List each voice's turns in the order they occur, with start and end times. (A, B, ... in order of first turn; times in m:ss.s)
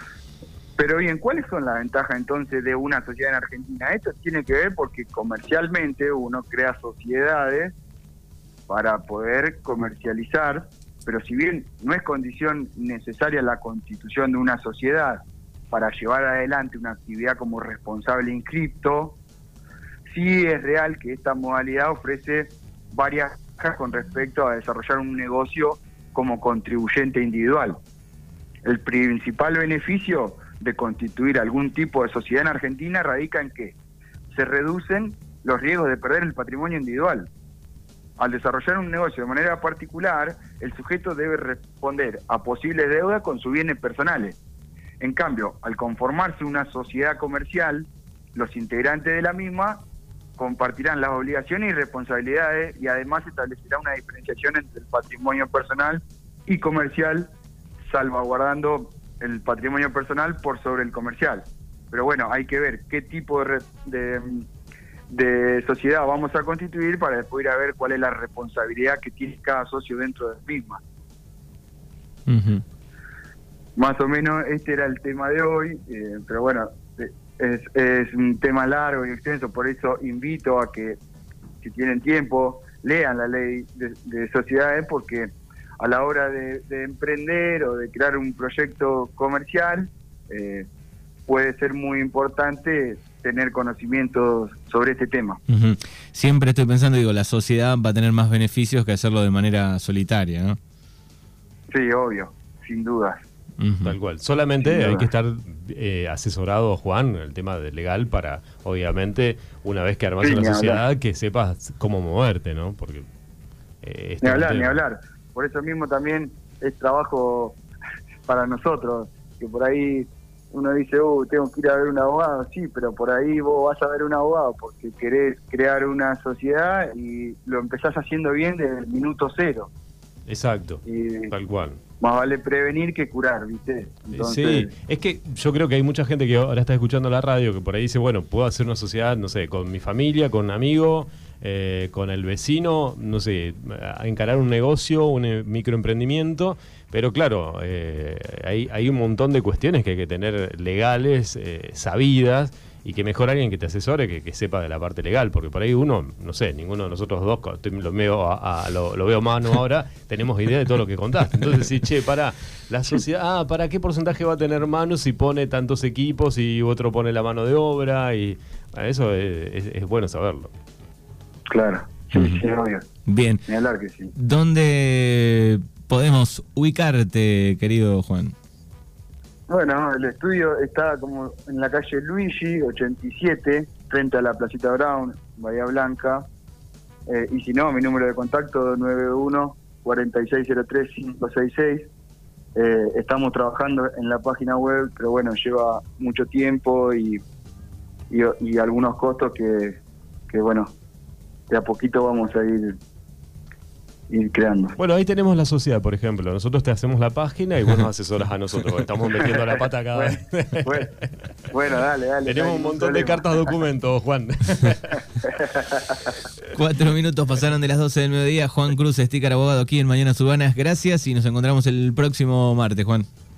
0:00.8-0:07.7 A
0:08.7-0:19.2 A
0:20.1-0:27.8 A
0:28.6-0:33.8 A
0:34.3-0:37.3 A
0:38.2-0:44.4 A
0:45.0-0:49.8 A
0:50.4-0:57.3 A
0:57.8-1:04.5 A
1:05.1-1:10.8 A
1:12.3-1:12.6 B
1:13.8-1:21.0 A
1:21.6-1:30.7 A
1:31.3-1:35.4 A
1:35.5-1:40.6 B
1:41.7-1:43.2 A
1:43.6-1:44.0 B
1:43.8-1:53.0 C
1:44.6-1:45.1 A
1:50.2-1:50.8 A
1:53.8-1:54.8 C
1:54.2-1:57.6 A
1:58.3-2:09.7 A
2:10.3-2:10.8 C
2:10.8-2:11.3 A
2:11.3-2:11.8 C
2:12.0-2:14.7 A
2:14.1-2:50.5 C
2:51.5-2:52.8 A
2:52.1-2:52.4 B
2:53.1-2:53.4 B
2:53.4-2:54.1 A
2:54.1-2:58.3 B
2:59.5-3:06.2 A
3:07.1-3:11.9 A
3:12.6-3:17.2 A
3:18.1-3:20.7 A
3:21.5-3:22.8 A
3:24.1-3:24.8 A
3:24.8-3:31.1 C
3:29.9-3:30.9 A
3:31.5-3:33.4 A
3:32.2-3:35.4 C
3:35.2-3:36.1 A
3:36.5-3:43.1 B